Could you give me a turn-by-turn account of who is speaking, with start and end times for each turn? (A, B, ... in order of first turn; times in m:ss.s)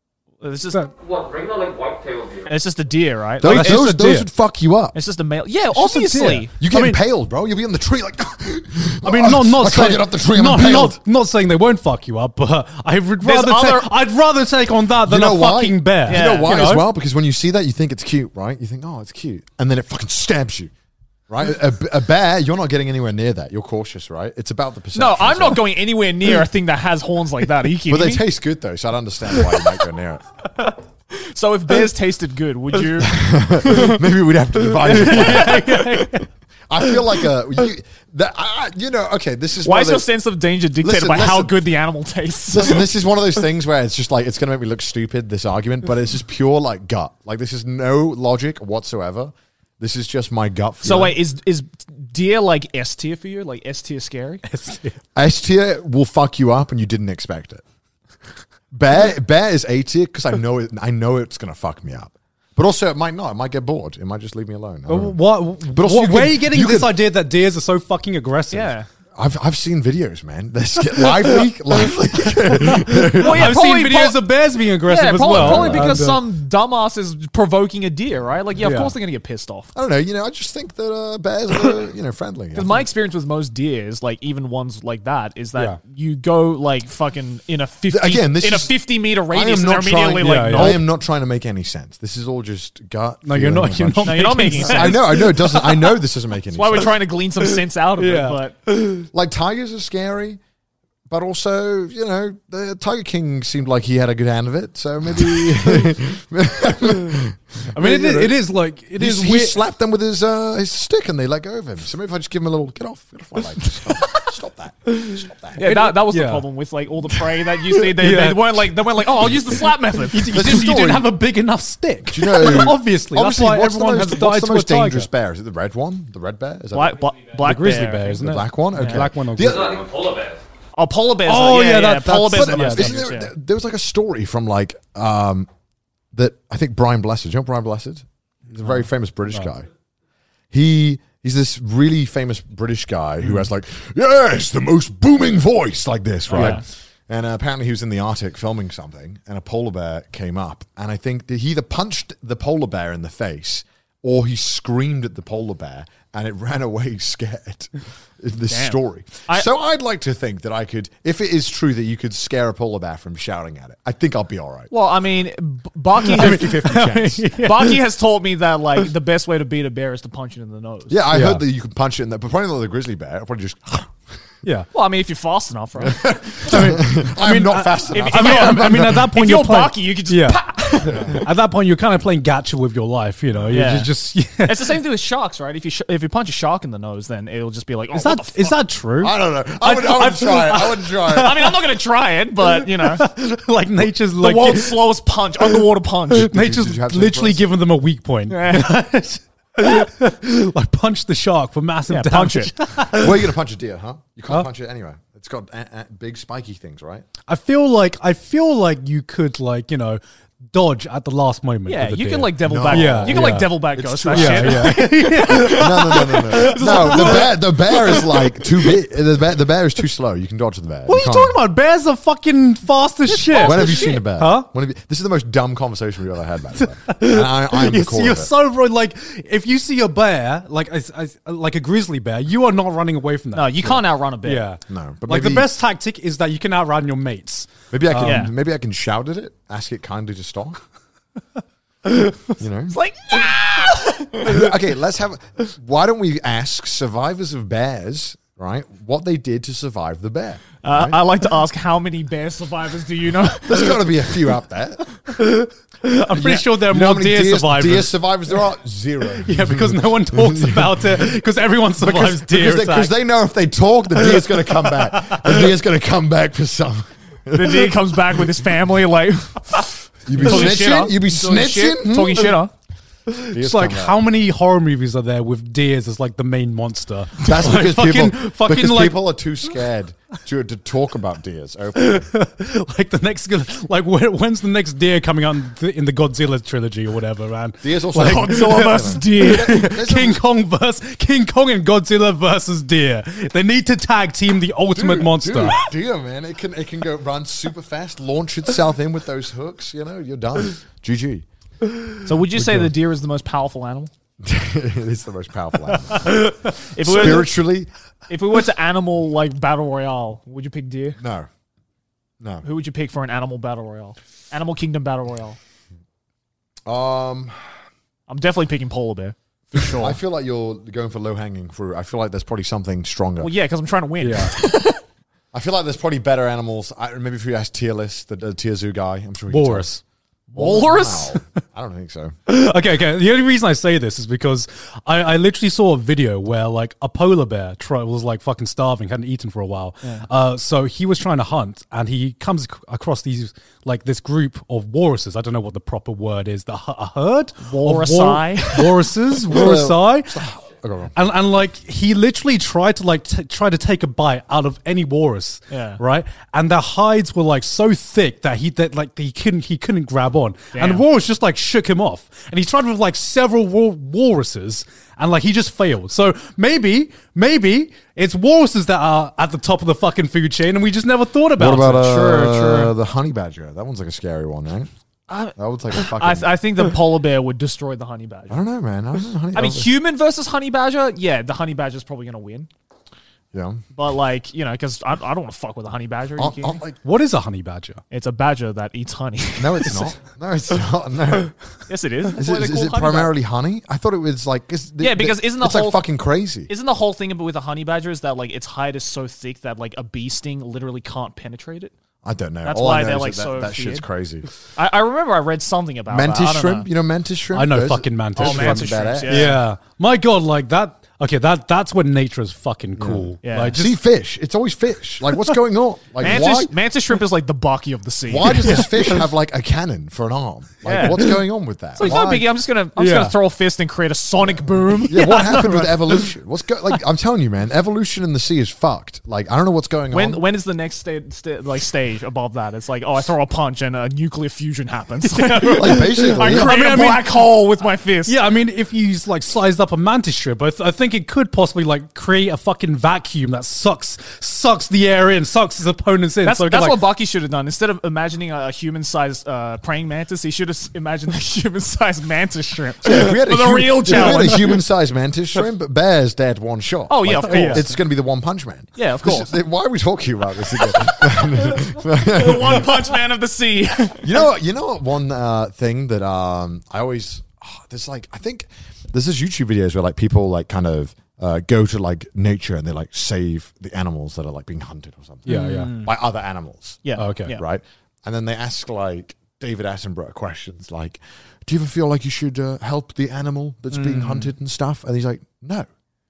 0:00.4-0:00.9 A
0:00.9-0:02.5 B
0:02.4-0:03.9 A
0:03.4-0:05.0 C
0:03.4-0:04.3 D
0:04.9-0:06.5 A
0:05.7-0:07.0 D
0:06.6-0:11.0 C
0:09.0-0:16.8 D
0:13.2-0:13.9 A
0:15.0-0:20.7 C
0:16.1-0:16.7 A
0:21.3-0:25.7 C
0:24.9-0:28.2 A
0:27.8-0:30.2 C
0:31.1-0:33.2 A
0:33.0-0:35.8 C
0:34.8-0:36.3 D
0:35.1-0:35.7 A
0:36.7-0:40.1 C
0:39.6-0:42.9 A
0:40.8-0:41.5 C
0:42.5-0:51.2 C
0:50.8-0:54.4 A
0:54.4-0:55.0 D
0:55.1-0:57.6 C
0:58.7-1:07.0 C
1:04.9-1:08.7 D
1:08.5-1:08.9 A
1:09.1-1:13.6 C
1:12.5-1:16.2 D
1:13.1-1:14.2 A
1:14.8-1:19.7 A
1:15.3-1:16.0 C
1:18.6-1:18.9 D
1:19.7-1:22.9 C
1:22.5-1:30.8 A
1:27.9-1:28.7 C
1:29.3-1:36.9 C
1:30.2-1:30.8 D
1:33.2-1:35.3 D
1:34.0-1:35.8 A
1:36.5-1:38.5 A
1:38.0-1:39.1 D
1:39.1-1:40.4 C
1:41.1-1:48.4 C
1:47.7-1:49.6 D
1:49.0-1:55.6 C
1:55.6-2:00.7 A
1:55.6-1:56.4 D
1:57.8-1:58.8 D
2:00.1-2:05.1 D
2:00.3-2:01.1 C
2:02.0-2:07.1 C
2:06.7-2:09.1 A
2:07.4-2:09.8 D
2:08.2-2:09.8 C
2:09.4-2:10.4 B
2:10.7-2:13.3 A
2:11.2-2:13.0 D
2:12.1-2:15.5 C
2:16.1-2:19.7 C
2:20.5-2:44.7 C
2:26.3-2:26.6 A
2:26.3-2:26.6 D
2:38.5-2:39.5 A
2:44.7-2:46.6 A
2:46.1-2:47.3 C
2:46.2-2:47.8 D
2:47.4-2:51.0 A
2:50.9-2:54.0 C
2:51.1-2:51.4 D
2:54.7-2:56.1 A
2:55.8-2:59.1 C
2:56.4-3:04.8 D
2:57.9-3:01.1 A
3:00.9-3:01.2 C
3:03.5-3:03.9 A
3:04.4-3:08.6 A
3:07.9-3:11.6 D
3:09.0-3:11.4 C
3:11.1-3:13.1 A
3:12.6-3:14.9 D
3:14.2-3:16.3 A
3:16.1-3:17.4 C
3:16.1-3:23.2 D
3:18.3-3:18.8 A
3:21.9-3:22.5 A
3:22.9-3:27.1 C
3:27.3-3:30.0 D
3:30.5-3:33.6 D
3:31.7-3:37.4 A
3:32.4-3:41.4 C
3:34.1-3:38.2 D
3:40.8-3:44.5 D
3:43.1-3:44.0 A
3:43.3-3:48.3 C
3:46.6-3:58.3 D
3:53.3-3:54.4 A
3:54.7-3:55.5 C
3:57.7-4:00.6 C
3:58.0-3:58.3 A
4:02.4-4:02.8 C
4:02.7-4:04.4 A
4:04.2-4:11.0 C
4:10.6-4:13.9 A
4:13.4-4:14.8 C
4:15.2-4:17.9 D
4:16.1-4:21.0 C
4:19.2-4:22.9 D
4:21.8-4:28.2 C
4:24.0-4:25.4 D
4:27.3-4:32.5 A
4:30.0-4:32.4 C
4:33.1-4:39.0 D
4:33.3-4:34.0 C
4:37.2-4:42.1 C
4:41.8-4:55.6 D
4:47.6-4:50.2 C
4:48.0-4:49.7 A
4:54.7-5:01.2 C
5:02.0-5:03.9 A
5:02.3-5:02.7 D
5:04.2-5:06.2 C
5:06.1-5:06.4 D
5:06.6-5:07.3 A
5:06.8-5:07.7 C
5:08.1-5:11.0 A
5:11.0-5:11.3 C
5:12.4-5:15.4 A
5:16.6-5:17.5 C
5:18.1-5:20.0 A
5:19.8-5:23.3 C
5:23.2-5:24.8 A
5:24.0-5:24.3 D
5:25.3-5:29.7 C
5:29.3-5:29.8 D
5:30.3-5:31.2 A
5:30.4-5:32.1 C
5:32.3-5:50.2 D
5:47.4-5:48.9 A
5:49.2-5:51.0 C
5:50.9-6:11.9 D
5:55.5-5:55.8 A
6:00.5-6:00.8 A
6:11.4-6:14.7 C
6:11.8-6:12.7 A
6:15.1-6:18.4 A
6:15.4-6:16.4 C
6:18.3-6:19.7 C
6:19.3-6:22.5 A
6:23.3-6:23.6 C
6:23.7-6:26.6 A
6:26.2-6:26.8 C
6:26.8-6:27.8 D
6:27.9-6:29.9 A
6:29.4-6:31.3 C
6:31.7-6:33.1 A
6:32.2-6:36.5 C
6:34.8-6:35.9 A
6:36.5-6:41.7 A
6:42.0-6:44.3 C
6:42.4-6:43.8 A
6:44.6-6:46.7 A
6:45.9-6:49.4 C
6:47.3-6:53.8 D
6:48.2-6:49.4 A
6:52.8-6:56.5 C
6:53.2-6:53.6 A
6:56.0-6:58.9 A
6:58.1-7:02.3 C
7:00.6-7:01.1 A
7:01.8-7:05.8 A
7:02.8-7:03.2 D
7:04.9-7:10.2 C
7:09.9-7:18.2 A
7:15.2-7:17.2 D
7:15.5-7:16.6 C
7:18.0-7:26.8 D
7:26.2-7:34.6 A
7:32.8-7:42.7 C
7:36.9-7:37.8 A
7:37.2-7:37.6 D
7:38.8-7:39.4 A
7:41.4-7:44.2 A
7:44.0-8:05.7 C
7:55.2-7:55.8 D
7:55.3-7:55.9 A
7:56.8-7:57.4 A
7:57.0-7:57.4 D
8:03.7-8:04.3 A